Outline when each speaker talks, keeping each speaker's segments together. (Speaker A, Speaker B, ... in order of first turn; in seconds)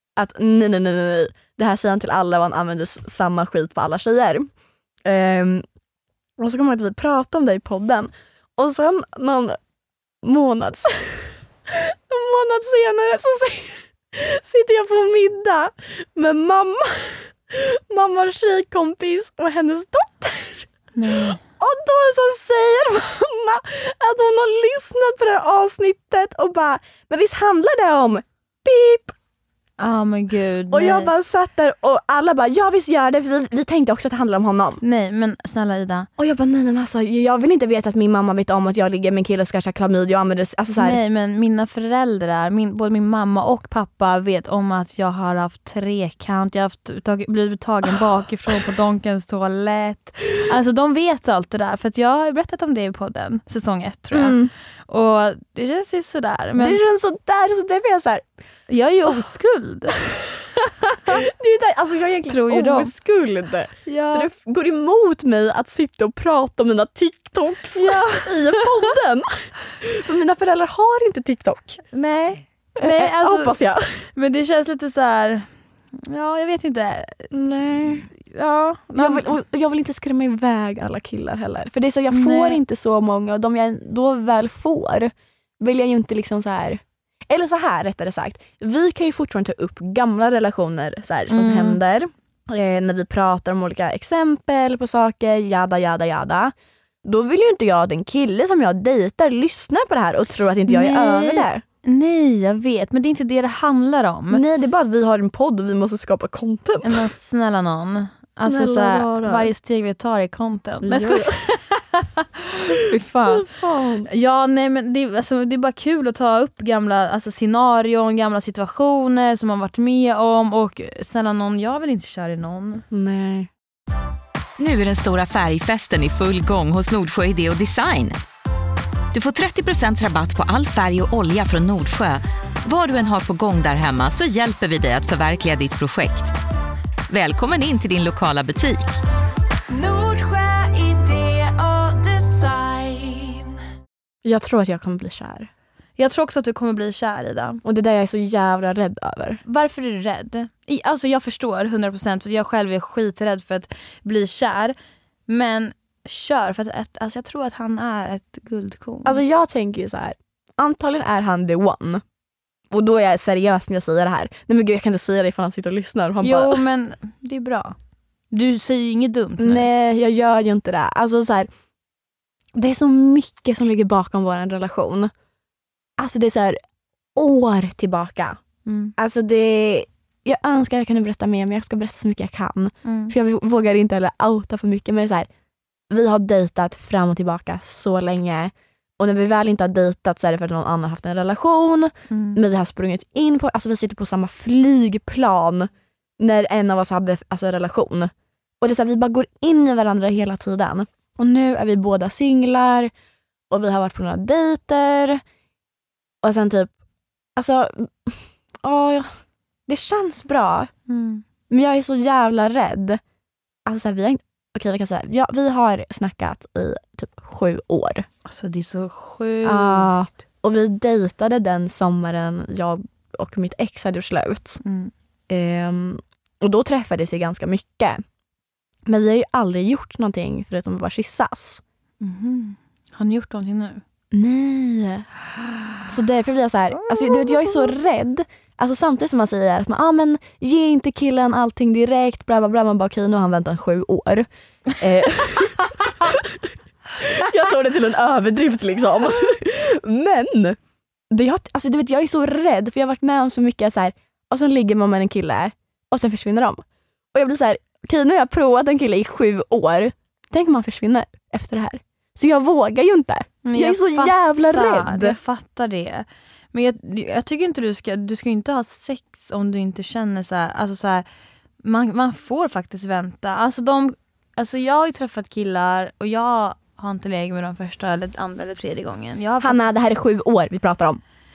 Speaker A: 0.2-4.5, 5.0-5.6, 6.4-9.6, 10.2-20.7, 21.4-29.1, 30.7-34.8, 36.2-41.0, 54.1-54.5, 56.6-58.2, 61.0-71.8, 72.8-74.0, 77.3-78.1, 78.9-101.6, 104.3-107.1, 108.5-109.5, 110.8-111.4, 113.3-114.1, 122.9-123.5, 144.2-145.5, 147.6-149.4, 159.1-162.0, 162.7-166.6, 169.4-171.5, 172.6-175.1, 176.0-176.6, 177.2-178.4, 179.0-185.3, 185.9-202.9, 203.5-205.2, 206.2-206.7, 207.4-209.1, 209.7-210.7, 211.5-213.0, 213.7-218.1, 219.4-224.6, 225.3-228.0, 228.9-231.6, 234.1-235.1, 235.9-244.3, 244.8-250.6, 251.1-265.2, 279.4-281.0
Speaker B: 21.0-21.4, 29.8-31.1, 34.8-36.1, 40.8-56.8, 58.7-60.0, 60.9-61.2, 62.3-62.9, 63.9-64.3, 67.7-68.9, 71.9-73.6, 74.2-75.5, 76.0-77.3, 77.9-79.3, 82.1-82.6, 91.3-91.8, 100.7-104.4, 106.8-113.5, 114.0-122.9, 139.9-143.3, 146.0-147.6, 149.5-154.8, 155.3-159.2, 166.2-167.8, 168.3-169.7, 178.7-178.9, 182.8-183.1, 192.1-192.4, 210.9-211.2, 218.3-219.9, 224.6-224.9, 232.0-233.8, 236.7-237.7, 263.4-271.1, 271.6-279.7
Speaker C: 124.6-128.2, 129.1-136.3, 137.1-139.0